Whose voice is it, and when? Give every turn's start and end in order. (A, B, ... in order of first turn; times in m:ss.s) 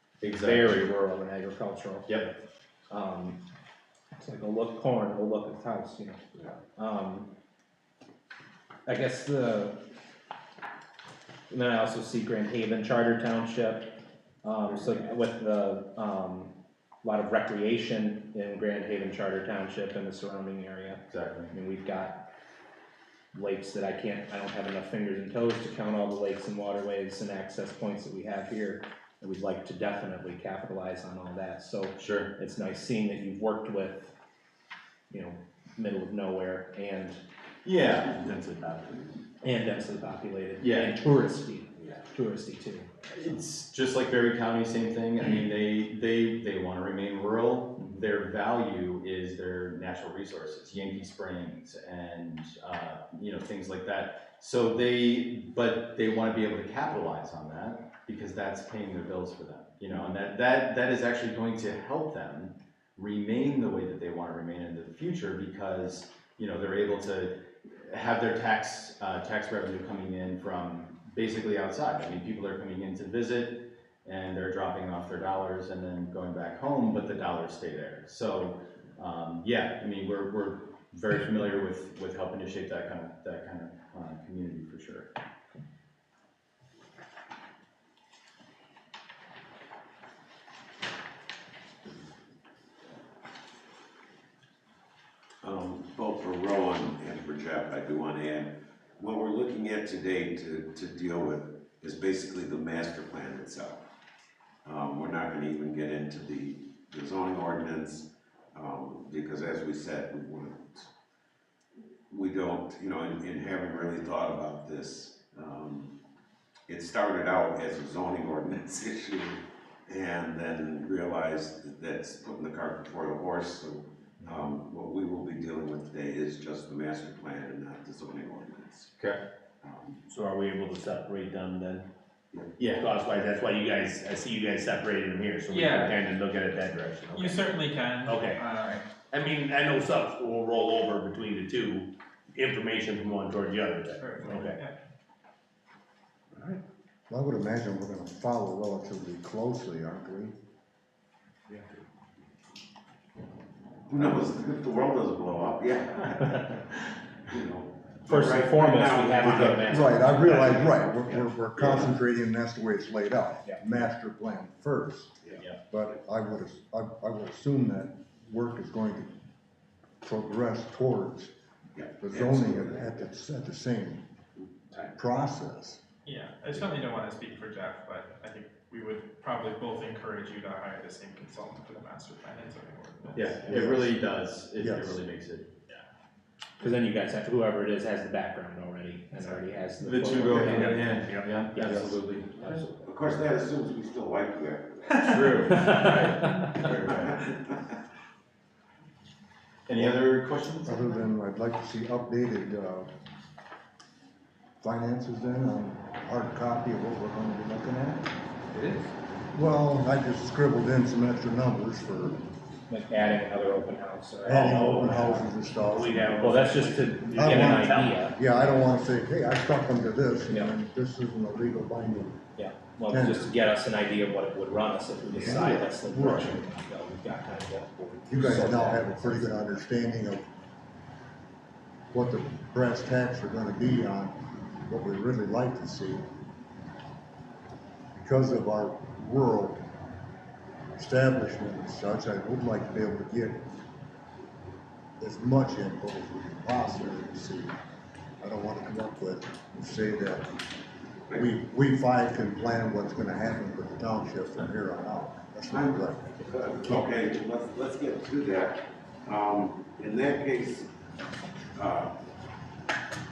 0:00.2-0:00.9 A
0:00.3-0:02.4 B
0:02.9-0:03.4 B
0:04.2-0:06.2 B
0:06.8-0:07.3 B
0:08.9-0:09.9 B
0:11.5-0:22.3 B
0:21.1-0:21.5 A
0:23.3-0:34.1 B
0:32.0-0:32.4 A
0:35.1-0:37.2 B
0:37.6-0:38.2 A
0:38.0-0:39.1 C
0:39.4-0:42.9 B
0:40.6-0:40.9 A
0:43.1-1:25.1 A
1:35.4-1:43.8 D
1:44.6-1:50.9 D
1:52.1-1:55.9 D
1:56.7-2:08.9 D
2:09.6-2:10.0 D
2:10.1-2:11.9 C
2:12.6-2:12.9 A
2:12.7-2:18.4 C
2:15.5-2:16.0 E
2:17.1-2:18.8 E
2:19.1-2:24.6 C
2:24.0-2:24.8 E
2:26.4-2:26.6 C
2:27.1-2:30.4 F
2:33.9-2:39.9 D
2:38.1-2:40.3 B
2:39.2-2:49.1 F
2:40.1-2:40.5 C
2:41.6-2:41.9 D
2:50.0-2:51.3 F
2:51.8-2:53.1 D
2:52.0-2:54.0 F
2:54.4-2:55.0 D
2:54.9-2:55.8 F
2:56.1-3:03.4 E
3:03.1-3:05.8 A
3:03.4-3:03.9 F
3:04.6-3:05.0 F
3:06.6-3:11.0 B
3:09.8-3:12.6 A
3:10.3-3:11.4 C
3:11.6-3:11.8 B
3:11.6-3:12.0 F
3:12.4-3:12.9 B
3:12.8-3:17.7 D
3:15.0-3:17.2 A
3:15.6-3:16.1 B
3:19.7-3:20.8 A
3:20.6-3:22.9 F
3:24.6-3:28.1 F
3:28.5-3:28.9 C
3:29.3-3:32.2 F
3:32.7-3:35.1 B
3:34.2-3:36.1 F
3:34.3-3:38.0 C
3:36.2-3:38.2 B
3:37.2-3:42.2 F
3:40.3-3:40.5 B
3:42.4-3:49.6 B
3:42.9-3:43.3 F
3:45.2-3:46.4 F
3:48.1-3:50.3 F
3:51.9-3:56.1 F
3:58.0-3:59.6 F
4:00.8-4:03.4 F
4:05.0-4:07.6 F
4:08.2-4:10.3 F
4:11.1-4:16.9 F
4:15.5-4:20.7 D
4:21.6-4:21.9 D